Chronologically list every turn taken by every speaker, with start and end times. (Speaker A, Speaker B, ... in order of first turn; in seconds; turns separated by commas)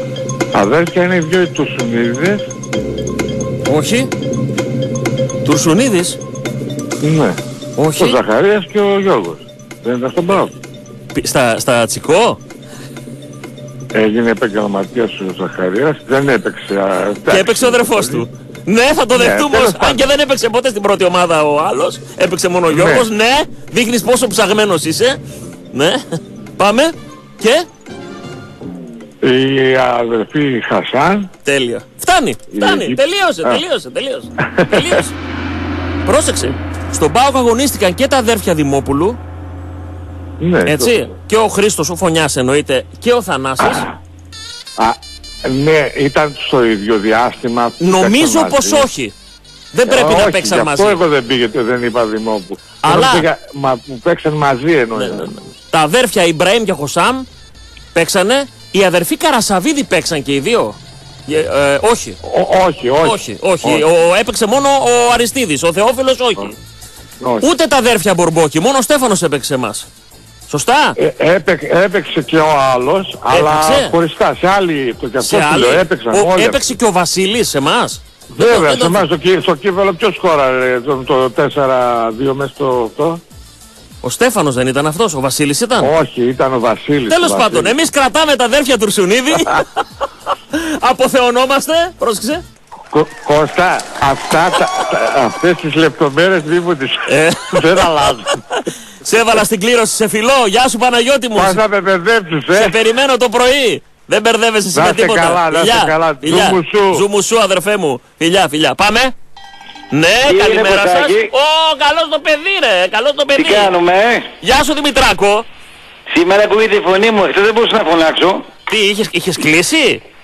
Speaker A: 0.5-2.5, Speaker B: 3.6-4.1, Speaker B: 5.4-6.2, Speaker A: 7.0-7.4, Speaker B: 7.8-8.2, Speaker A: 8.0-10.5, Speaker B: 11.1-12.4, Speaker A: 13.9-18.2, Speaker B: 17.3-25.2, Speaker A: 19.1-20.0, Speaker A: 22.7-23.1, Speaker B: 25.7-26.0, Speaker B: 26.6-27.7, Speaker A: 29.2-31.3, Speaker B: 31.4-35.1, Speaker A: 32.5-33.6, Speaker A: 34.4-35.0, Speaker B: 36.0-39.2, Speaker A: 40.4-41.0, Speaker B: 40.7-43.9, Speaker A: 43.6-44.0, Speaker A: 44.8-48.9, Speaker B: 47.8-49.1, Speaker B: 49.7-51.0, Speaker A: 49.9-55.3, Speaker B: 52.8-53.2, Speaker B: 54.9-57.2, Speaker B: 57.9-62.2, Speaker A: 62.2-63.9, Speaker B: 63.0-66.5, Speaker A: 67.2-67.5, Speaker B: 67.4-69.9, Speaker B: 70.5-71.0, Speaker A: 71.0-76.6, Speaker B: 73.3-73.9, Speaker B: 75.2-79.0, Speaker A: 78.3-83.2, Speaker B: 84.0-85.9, Speaker A: 85.8-87.8, Speaker B: 87.1-89.7, Speaker B: 90.5-92.4, Speaker A: 92.9-98.4, Speaker B: 97.1-97.9, Speaker B: 99.0-101.6, Speaker A: 101.3-102.8, Speaker B: 102.5-109.1, Speaker A: 104.7-107.0, Speaker B: 109.9-113.7, Speaker C: 110.3-111.3, Speaker C: 113.3-114.3, Speaker B: 114.4-115.5, Speaker C: 116.1-118.5, Speaker B: 118.7-120.0